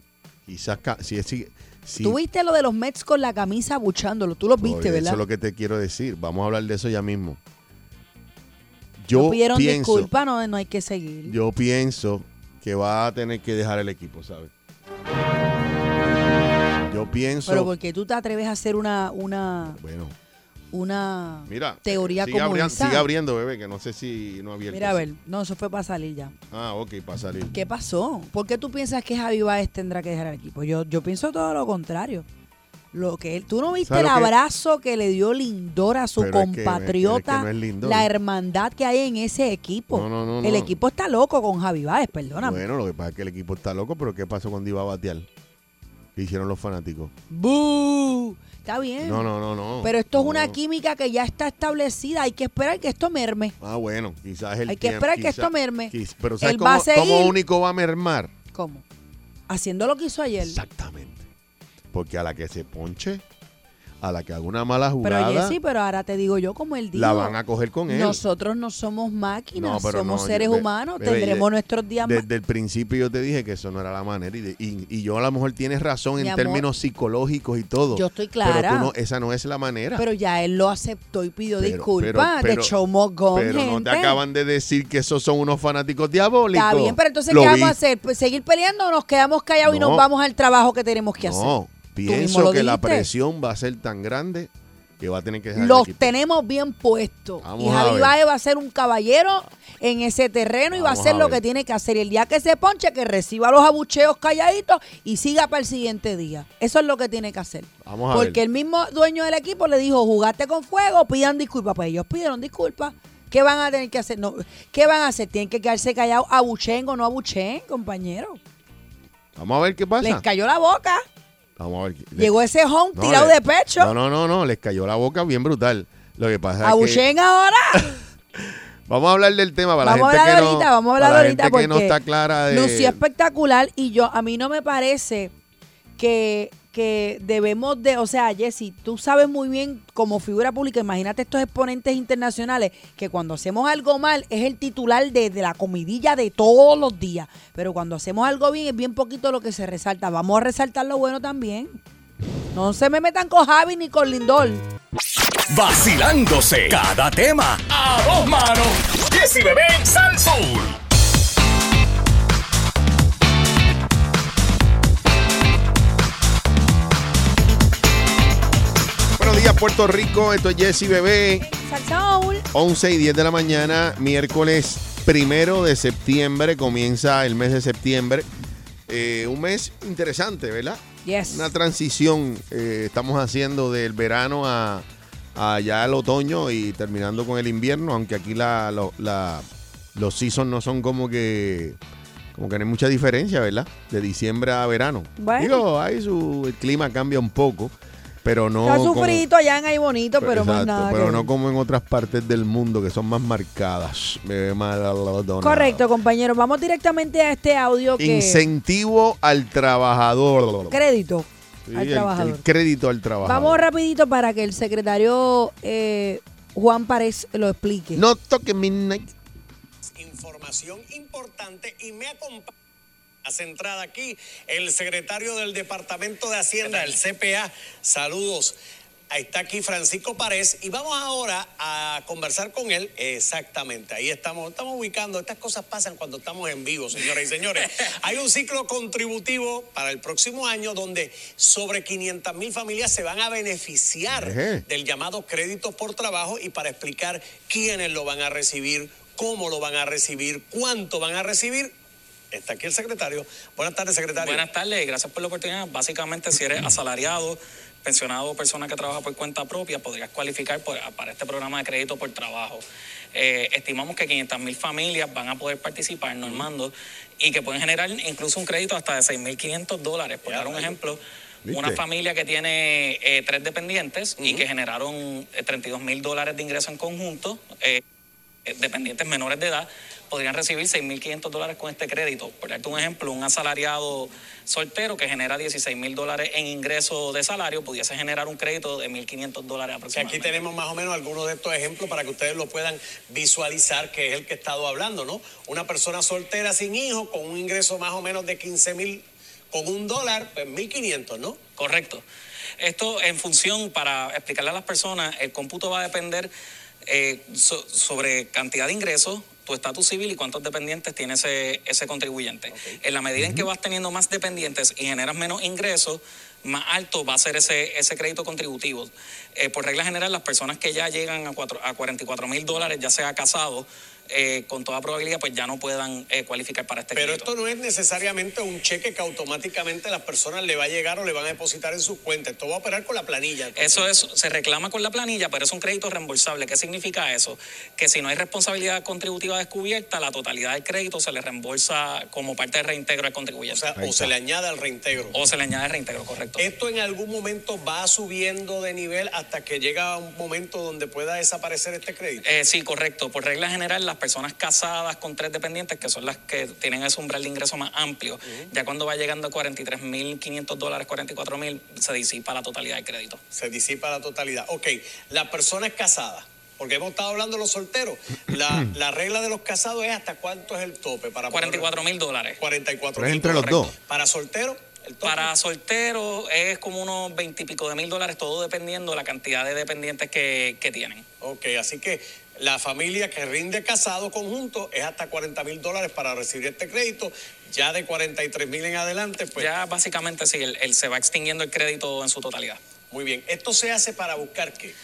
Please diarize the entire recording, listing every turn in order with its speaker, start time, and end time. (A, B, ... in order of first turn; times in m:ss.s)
0:00.4-0:02.2 A
0:02.0-0:05.2 B
0:04.6-0:07.4 A
0:09.0-0:10.1 A
0:09.1-0:11.4 B
0:11.2-0:14.5 A
0:16.8-0:17.7 A
0:17.4-0:19.8 B
0:19.7-0:20.1 A
0:20.7-0:23.0 B
0:21.4-0:25.1 A
0:24.7-0:26.3 B
0:26.5-0:27.6 A
0:27.5-0:32.2 B
0:32.9-0:42.6 B
0:33.8-0:34.3 A
0:36.2-0:38.1 A
0:39.9-0:40.7 A
0:42.3-0:45.3 A
0:46.2-0:47.1 A
0:47.3-0:49.3 B
0:49.0-0:50.6 A
0:49.8-0:53.5 B
0:53.6-0:58.3 A
0:54.7-0:57.4 B
0:58.5-0:58.8 B
0:59.5-1:00.6 B
1:00.4-1:01.3 A
1:01.9-1:03.2 A
1:04.0-1:05.6 A
1:05.0-1:07.4 B
1:06.9-1:08.2 A
1:07.9-1:12.2 B
1:09.5-1:11.5 A
1:12.0-1:20.0 A
1:16.2-1:16.6 B
1:17.9-1:18.9 B
1:20.0-1:24.2 B
1:21.6-1:22.7 A
1:23.3-1:27.8 A
1:26.5-1:31.5 B
1:29.6-1:30.0 A
1:31.2-1:36.1 A
1:32.0-1:33.1 B
1:35.5-1:58.4 B
1:37.4-1:38.2 A
1:40.7-1:41.4 A
1:47.8-1:48.4 A
1:59.3-2:00.2 A
2:00.0-2:01.0 B
2:01.6-2:02.3 A
2:02.2-2:03.9 B
2:02.9-2:07.0 A
2:06.6-2:08.0 B
2:07.7-2:13.0 A
2:09.8-2:12.0 B
2:12.5-2:15.3 B
2:16.0-2:31.8 B
2:32.5-2:34.6 B
2:35.5-2:40.8 C
2:49.2-2:51.5 A
2:51.4-2:52.4 B
2:52.5-2:58.3 A
2:58.9-3:11.8 A
3:01.0-3:01.5 B
3:12.3-3:19.2 A
3:15.2-3:15.6 B
3:18.6-3:21.3 B
3:20.2-3:25.8 A
3:25.4-3:28.4 B
3:28.0-3:30.8 A
3:30.7-3:32.4 B
3:31.6-3:33.6 A
3:33.2-3:38.0 B
3:37.9-3:39.1 A
3:40.0-3:42.5 D
3:43.2-3:48.6 D
3:46.6-3:47.0 E
3:49.1-4:11.7 D
4:04.1-4:04.6 A
4:12.3-4:14.4 D
4:14.2-4:22.6 E
4:23.1-4:37.8 E
4:30.2-4:30.8 D
4:31.4-4:31.8 A
4:34.2-4:34.4 D
4:38.5-4:50.4 E
4:49.9-5:01.4 D
5:01.6-5:02.0 E
5:02.6-5:06.3 E
5:06.9-5:27.3 E
5:12.5-5:12.8 D
5:13.2-5:13.4 A
5:26.9-5:34.0 D
5:33.6-5:43.7 E
5:43.5-5:45.2 D
5:43.8-5:44.1 A
5:45.1-5:46.4 E
5:46.4-5:52.2 D
5:52.2-6:03.2 E
6:03.3-6:11.8 D
6:11.3-6:12.4 E
6:12.4-6:15.3 D
6:13.0-6:13.7 A
6:13.0-6:13.7 E
6:15.0-6:21.0 E
6:21.2-6:29.5 D
6:29.4-6:32.6 E
6:32.9-6:34.7 D